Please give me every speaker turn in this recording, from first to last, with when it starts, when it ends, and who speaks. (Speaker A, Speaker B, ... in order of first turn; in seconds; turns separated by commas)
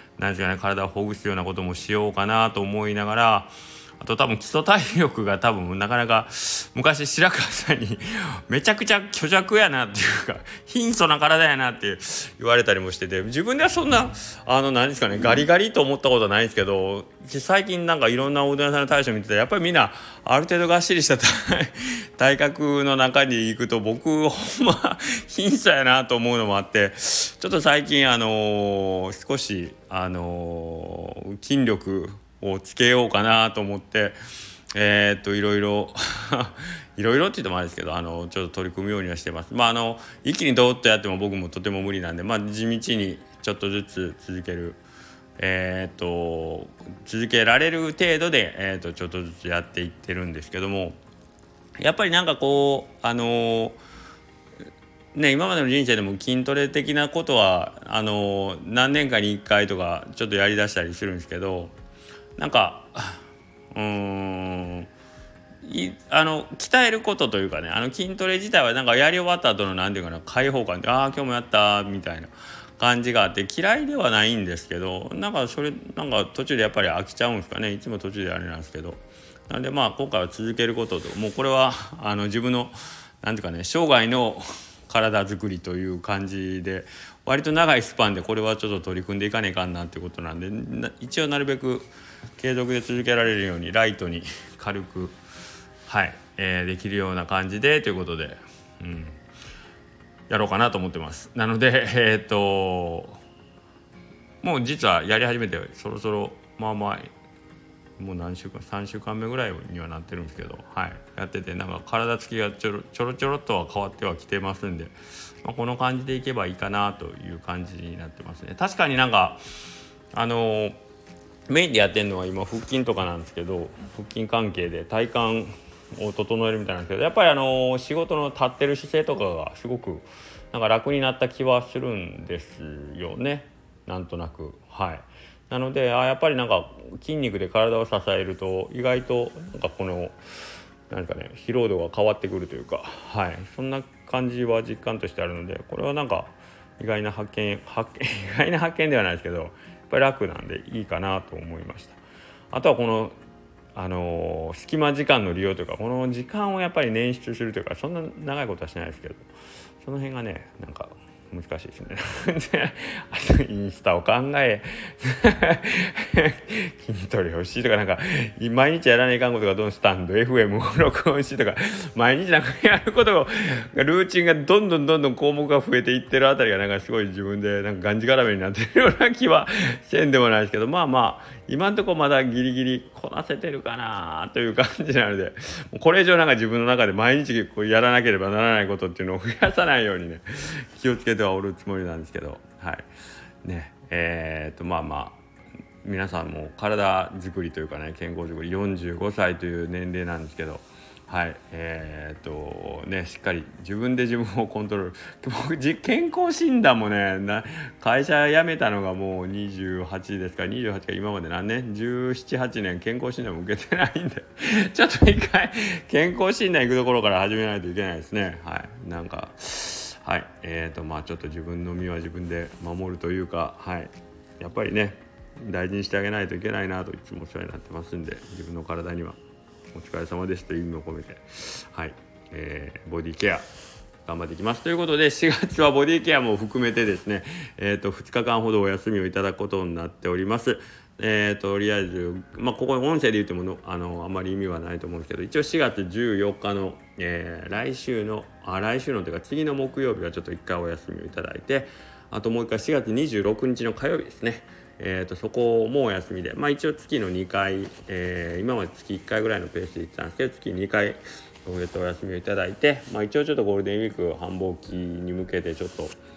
Speaker A: 0.2-34.2, Speaker A: 34.7-44.8, Speaker A: 45.4-51.0, Speaker A: 51.8-53.8, Speaker A: 55.1-61.8, Speaker A: 62.4-64.9, Speaker A: 65.6-95.2, Speaker A: 95.9-99.2, Speaker A: 100.3-103.2, Speaker A: 104.4-107.1, Speaker A: 108.0-119.4, Speaker A: 120.1-120.8, Speaker A: 121.5-140.2, Speaker A: 140.9-152.0, Speaker A: 152.5-153.2, Speaker A: 153.8-159.3, Speaker A: 159.8-192.9, Speaker A: 193.4-195.2, Speaker A: 195.8-229.2, Speaker A: 229.7-233.4, Speaker A: 234.1-266.0